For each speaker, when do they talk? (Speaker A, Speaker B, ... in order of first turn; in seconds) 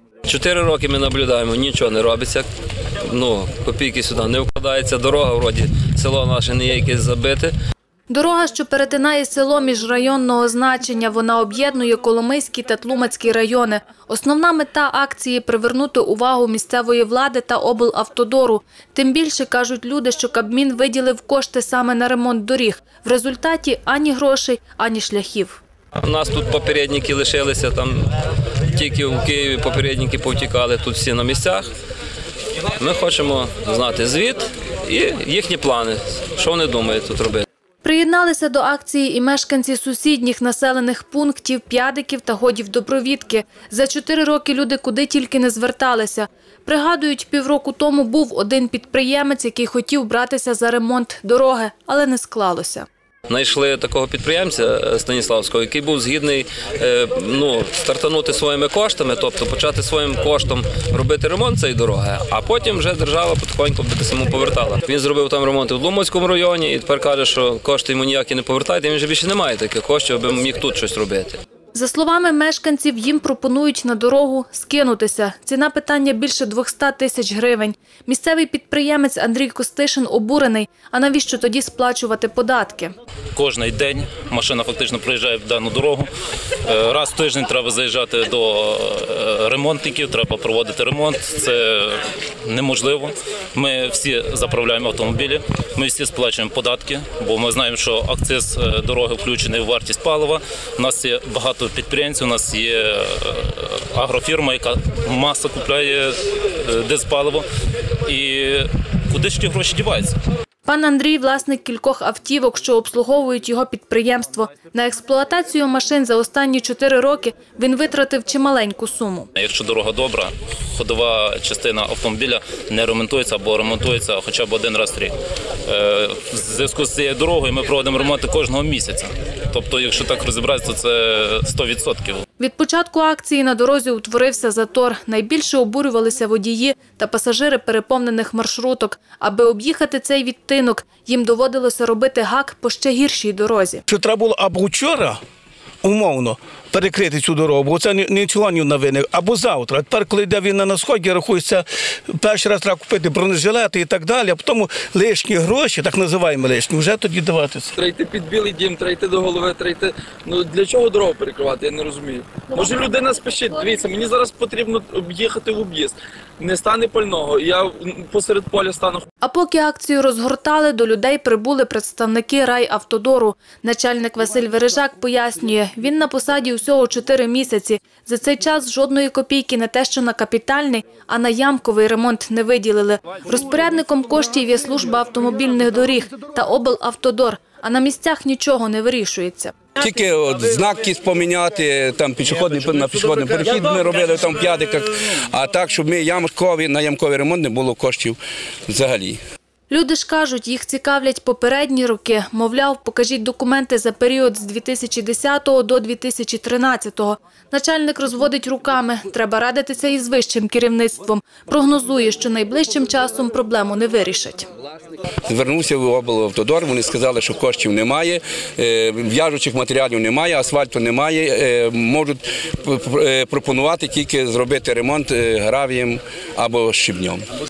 Speaker A: 0.2-2.5, 3.0-7.5, 26.0-28.1, 28.7-31.7, 32.8-37.4, 53.3-71.4
Speaker B: 8.1-25.6, 37.8-52.9, 71.7-82.9, 110.7-119.3, 132.4-143.8, 169.2-189.5, 199.7-214.5
Speaker C: 83.3-86.1, 86.7-107.4, 108.0-110.1, 119.3-125.1, 125.7-132.2
Speaker D: 143.9-145.2, 145.8-157.7
Speaker E: 157.8-169.1
Speaker F: 189.8-199.2, 215.3-227.2